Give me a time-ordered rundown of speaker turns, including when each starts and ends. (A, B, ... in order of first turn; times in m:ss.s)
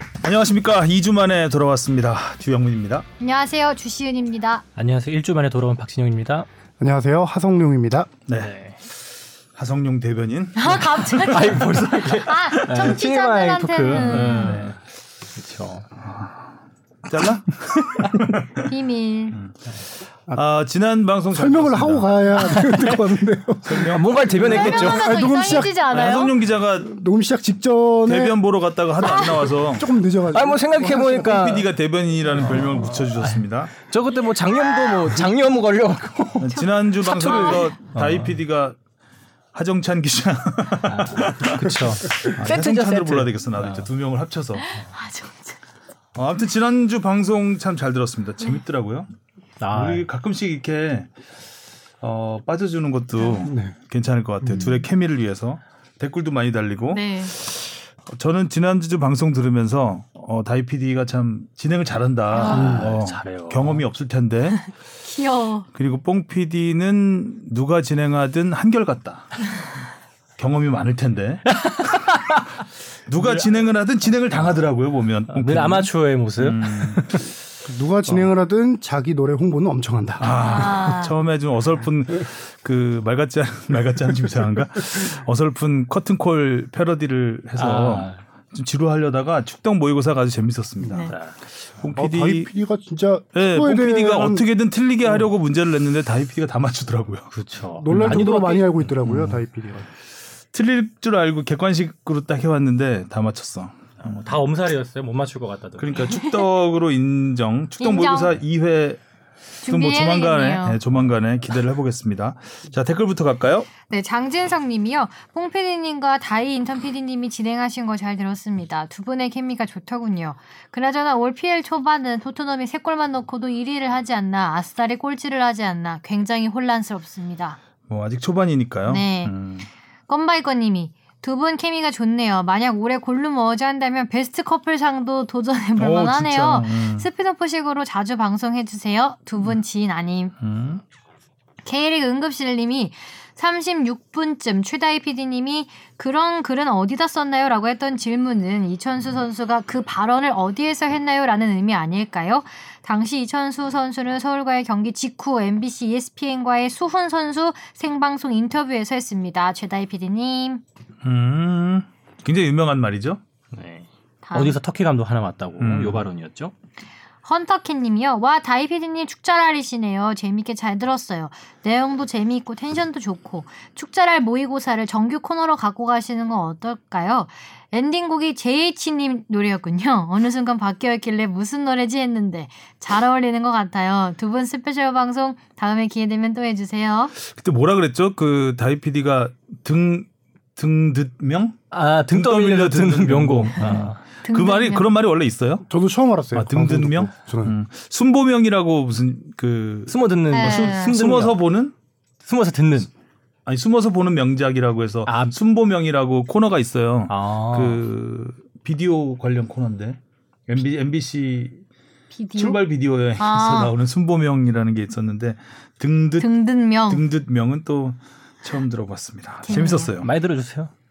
0:00.2-0:03.0 A
0:03.2-0:04.6 B
0:04.8-0:06.5 C
0:06.8-0:08.1 D
0:08.3-0:08.8 C
0:09.5-0:11.4 A
0:10.6-0:14.6 B
0:11.1-0:14.8 C
0:13.9-0:14.7 A
0:15.3-0:15.8 C
0:17.0-0:18.7 A
0:18.6-0:19.4 B
0:20.3-0:22.6 A
0:21.3-0:25.9 D
0:22.6-0:22.9 C
0:23.6-0:24.9 A
0:23.7-0:25.1 C
0:24.4-0:26.3 B
0:25.9-0:26.9 A
0:26.8-0:28.4 D
0:28.0-0:29.9 A
0:29.0-0:29.5 B
0:29.7-0:31.5 D
0:30.3-0:31.7 C
0:31.3-0:33.7 A
0:32.3-0:36.6 C
0:36.4-0:38.8 A
0:36.5-0:37.7 B
0:37.9-0:38.4 C
0:39.5-0:44.7 A
0:40.9-0:43.9 C
0:44.6-0:45.6 B
0:46.2-0:49.1 A
0:49.6-0:50.0 C
0:49.7-0:51.1 A
0:52.0-1:04.7 A
0:53.4-0:53.7 D
0:54.4-0:54.7 D
0:56.9-0:57.3 B
1:02.3-1:02.8 B
1:02.4-1:03.8 C
1:02.5-1:02.9 D
1:05.0-1:05.7 B
1:05.7-1:09.5 A
1:10.4-1:11.9 A
1:11.5-1:12.4 C
1:13.1-1:17.2 A
1:13.2-1:13.7 C
1:15.3-1:17.3 C
1:17.6-1:20.2 D
1:20.2-1:31.2 A
1:20.3-1:21.1 B
1:27.6-1:28.2 C
1:30.9-1:31.1 B
1:31.1-1:31.3 C
1:31.7-1:32.5 A
1:31.9-1:34.4 D
1:33.3-1:37.3 A
1:37.3-1:38.7 C
1:37.8-1:39.9 D
1:37.9-1:38.3 A
1:39.0-1:39.4 A
1:40.5-1:44.2 A
1:44.0-1:46.1 C
1:45.8-1:49.0 A
1:46.2-1:46.4 B
1:47.8-1:48.4 B
1:49.6-1:50.8 B
1:49.6-1:53.7 A
1:53.8-2:07.6 B
2:07.9-2:09.7 A
2:08.9-2:09.3 B
2:10.1-2:20.3 B
2:15.8-2:17.1 A
2:20.4-2:20.8 A
2:21.6-2:40.6 B
2:41.0-2:43.2 A
2:43.5-2:46.5 C
2:44.2-2:44.6 B
2:45.6-2:46.0 A
2:47.2-3:07.1 B
3:07.2-3:11.6 A
3:11.7-3:14.0 C
3:12.1-3:15.6 A
3:14.2-3:14.8 B
3:15.7-3:17.6 D
3:16.3-3:21.7 A
3:19.9-3:21.4 C
3:20.3-3:20.9 B
3:22.2-3:22.9 C
3:23.4-3:31.6 A
3:25.0-3:25.3 C
3:27.1-3:27.8 C
3:32.1-3:32.6 B
3:32.4-3:36.3 A
3:33.2-3:33.7 B
3:36.2-3:37.0 B
3:36.8-3:40.1 A
3:39.4-3:39.9 B
3:40.0-3:40.7 C